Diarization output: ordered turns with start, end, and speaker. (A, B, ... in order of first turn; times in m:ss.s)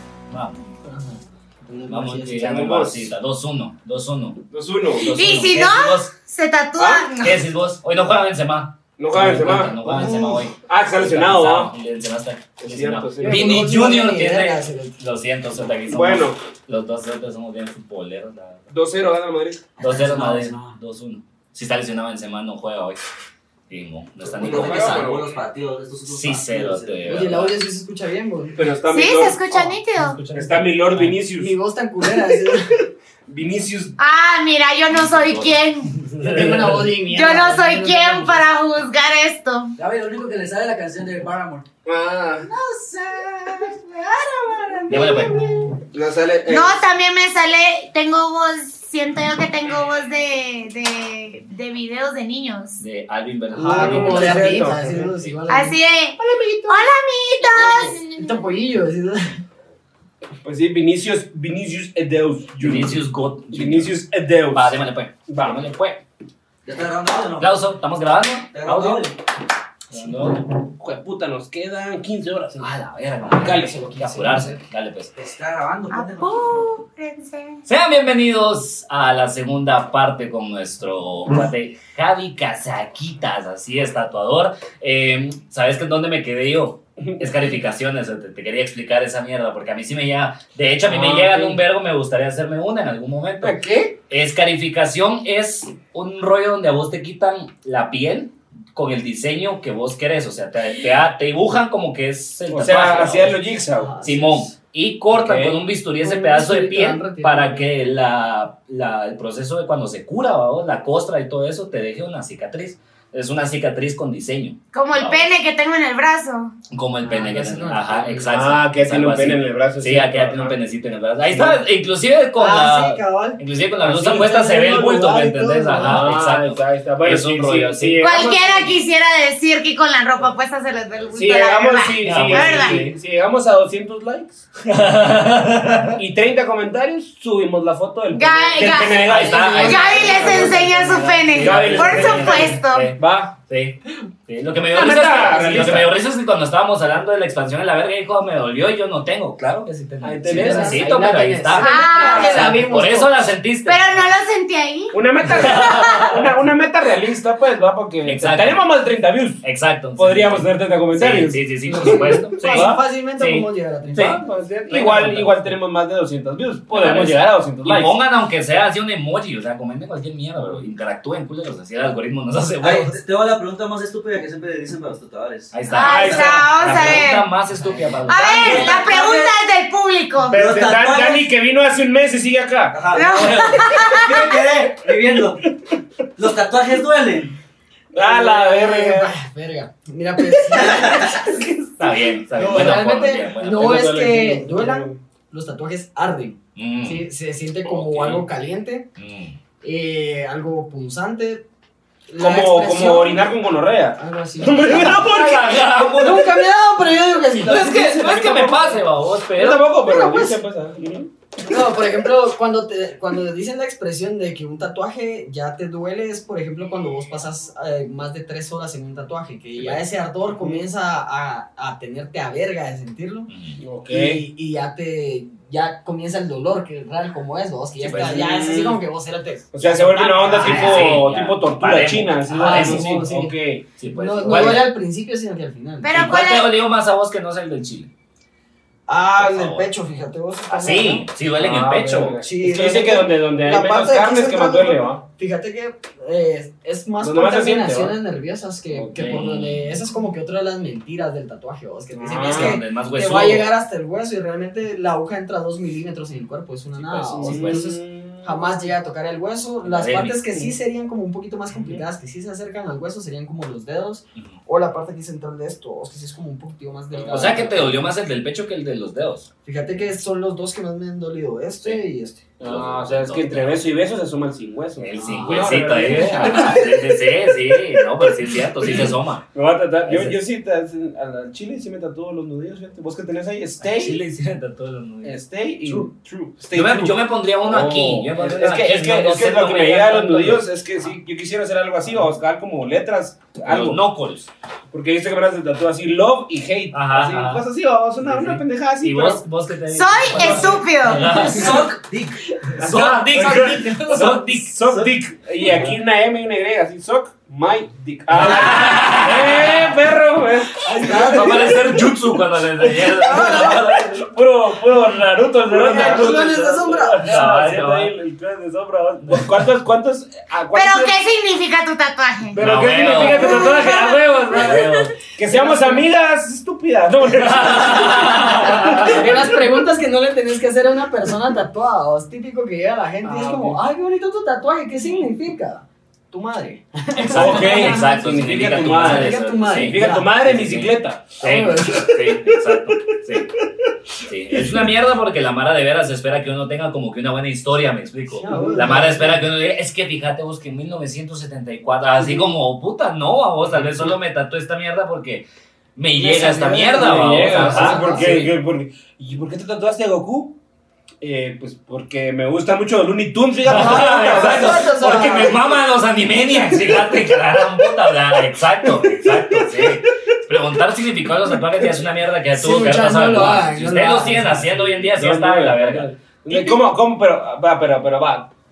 0:00.3-0:00.6 A
0:01.8-0:04.4 A
0:01.9-0:03.1 B
0:04.5-0:05.2 B
0:05.0-0:06.1 A
0:05.1-0:07.4 C
0:06.8-0:07.1 B
0:07.2-0:18.6 A
0:09.0-0:11.8 B
0:09.8-0:10.5 D
0:12.6-0:13.7 B
0:13.2-0:15.0 D
0:15.9-0:16.4 B
0:18.7-0:19.7 B
0:19.8-0:23.0 A
0:19.8-0:20.6 E
0:20.1-0:20.5 D
0:23.7-0:25.2 A
0:24.3-0:25.3 B
0:24.3-0:27.3 E
0:26.0-0:27.6 A
0:27.1-0:28.6 D
0:28.5-0:29.7 B
0:28.9-0:30.2 C
0:30.0-0:31.2 A
0:30.3-0:31.5 B
0:31.3-0:32.7 D
0:32.0-0:32.6 B
0:33.3-0:34.0 B
0:34.0-0:36.1 C
0:34.9-0:36.8 A
0:36.2-0:38.4 D
0:37.0-0:39.7 C
0:39.8-0:41.7 E
0:41.8-0:42.5 B
0:42.5-0:45.8 D
0:44.9-0:45.4 A
0:44.9-0:45.3 C
0:45.8-0:46.8 B
0:46.5-0:52.8 C
0:52.8-0:55.4 A
0:53.5-0:55.8 D
0:53.7-0:55.1 B
0:55.5-0:58.4 C
0:56.2-0:56.9 B
0:58.0-0:59.4 D
1:00.4-1:05.6 B
1:02.6-1:06.0 A
1:06.6-1:07.5 E
1:07.4-1:09.1 A
1:08.5-1:09.2 E
1:09.9-1:10.6 A
1:10.8-1:12.8 B
1:12.6-1:15.1 A
1:13.3-1:14.6 B
1:15.2-1:16.6 E
1:15.9-1:17.6 C
1:17.7-1:43.4 A
1:27.0-1:27.3 B
1:30.8-1:31.6 B
1:33.4-1:34.0 B
1:42.5-1:44.0 B
1:43.8-1:44.5 D
1:44.0-1:55.3 A
1:45.1-1:45.6 B
1:46.0-1:47.7 D
1:54.7-1:56.6 C
1:56.7-2:08.1 A
1:57.0-1:58.3 D
1:58.3-2:00.6 B
2:01.3-2:01.6 B
2:02.4-2:03.4 D
2:03.8-2:05.1 B
2:04.0-2:06.1 D
2:05.7-2:08.8 B
2:08.0-2:12.9 C
2:11.1-2:14.5 B
2:12.0-2:13.0 A
2:14.7-2:16.0 A
2:16.0-2:23.4 B
2:18.1-2:22.9 C
2:19.0-2:34.1 A
2:19.0-2:21.2 D
2:24.6-2:26.0 B
2:30.0-2:32.6 B
2:30.2-2:33.2 D
2:31.6-2:32.5 C
2:33.6-2:36.2 C
2:34.9-2:39.4 B
2:35.3-2:36.2 A
2:38.0-2:38.7 A
2:39.4-2:45.5 A
2:40.0-2:42.8 B
2:41.7-2:44.2 D
2:44.0-2:48.0 B
2:46.7-2:53.0 A
2:52.6-2:55.6 E
2:55.5-2:58.8 A
2:55.7-2:57.0 B
2:55.7-2:57.3 C
2:58.1-3:00.4 C
2:58.2-2:59.4 E
3:00.2-3:01.2 E
3:00.3-3:02.8 B
3:02.7-3:05.4 E
3:02.9-3:04.3 C
3:06.2-3:07.4 E
3:07.9-3:09.1 B
3:08.0-3:11.8 D
3:11.8-3:13.6 A
3:12.3-3:18.9 D
3:12.5-3:12.7 B
3:13.5-3:15.0 B
3:16.6-3:17.0 A
3:17.7-3:18.2 B
3:19.0-3:19.4 A
3:19.6-3:21.4 D
3:22.1-3:23.3 D
3:22.2-3:25.4 B
3:24.0-3:27.8 D
3:24.6-3:26.4 A
3:27.4-3:29.8 A
3:27.4-3:31.1 B
3:29.9-3:30.4 D
3:31.4-3:43.3 D
3:39.6-3:40.6 B
3:43.3-3:43.6 A
3:43.6-3:44.2 B
3:43.9-3:51.0 D
3:47.8-3:48.3 A
3:47.9-3:48.8 B
3:49.5-3:54.6 B
3:50.4-3:53.1 A
3:52.3-3:53.4 D
3:53.8-3:54.7 A
3:53.9-3:56.1 D
3:55.8-3:56.5 C
3:55.9-3:57.9 A
3:58.9-4:01.1 D
3:59.2-3:59.7 A
4:00.5-4:02.2 A
4:01.4-4:05.0 B
4:02.2-4:27.8 D
4:07.0-4:08.0 B
4:08.7-4:09.2 B
4:09.0-4:09.8 A
4:11.9-4:12.6 B
4:12.2-4:13.5 A
4:16.8-4:18.7 B
4:17.2-4:17.7 A
4:19.6-4:20.2 A
4:21.5-4:21.8 B
4:26.9-4:27.7 B
4:27.1-4:29.3 A
4:29.4-4:32.2 D
4:32.4-4:33.6 A
4:32.4-4:36.8 B
4:34.8-4:39.2 A
4:35.0-4:36.6 D
4:38.6-4:44.0 B
4:39.9-4:40.2 A
4:43.6-4:45.9 A
4:45.0-4:53.8 B
4:46.5-4:50.4 A
4:53.5-4:54.3 A
4:54.7-4:59.2 B
4:56.7-4:57.4 A
4:58.0-5:01.8 A
4:59.7-5:01.1 C
5:00.2-5:00.5 B
5:01.0-5:02.2 E
5:01.2-5:01.7 B
5:02.6-5:04.9 A
5:02.6-5:11.7 B
5:05.4-5:05.7 A
5:08.1-5:09.7 A
5:10.6-5:14.0 A
5:10.7-5:11.8 D
5:12.6-5:21.0 B
5:13.0-5:13.7 D
5:15.5-5:17.9 A
5:15.6-5:17.2 D
5:20.5-5:24.9 C
5:22.3-5:29.3 B
5:22.4-5:24.9 A
5:25.3-5:25.8 D
5:27.2-5:29.0 A
5:28.3-5:40.1 D
5:33.0-5:33.6 B
5:37.0-5:43.4 A
5:37.1-5:42.2 B
5:41.2-5:42.1 D
5:44.0-5:55.2 A
5:44.3-5:44.6 B
5:48.2-5:49.2 D
5:48.3-5:48.9 B
5:55.8-5:58.3 A
5:56.0-5:58.3 D
5:56.0-6:00.3 B
6:01.0-6:05.4 B
6:03.4-6:16.6 A
6:03.5-6:05.5 D
6:08.8-6:09.8 B
6:12.3-6:14.6 D
6:14.5-6:18.3 B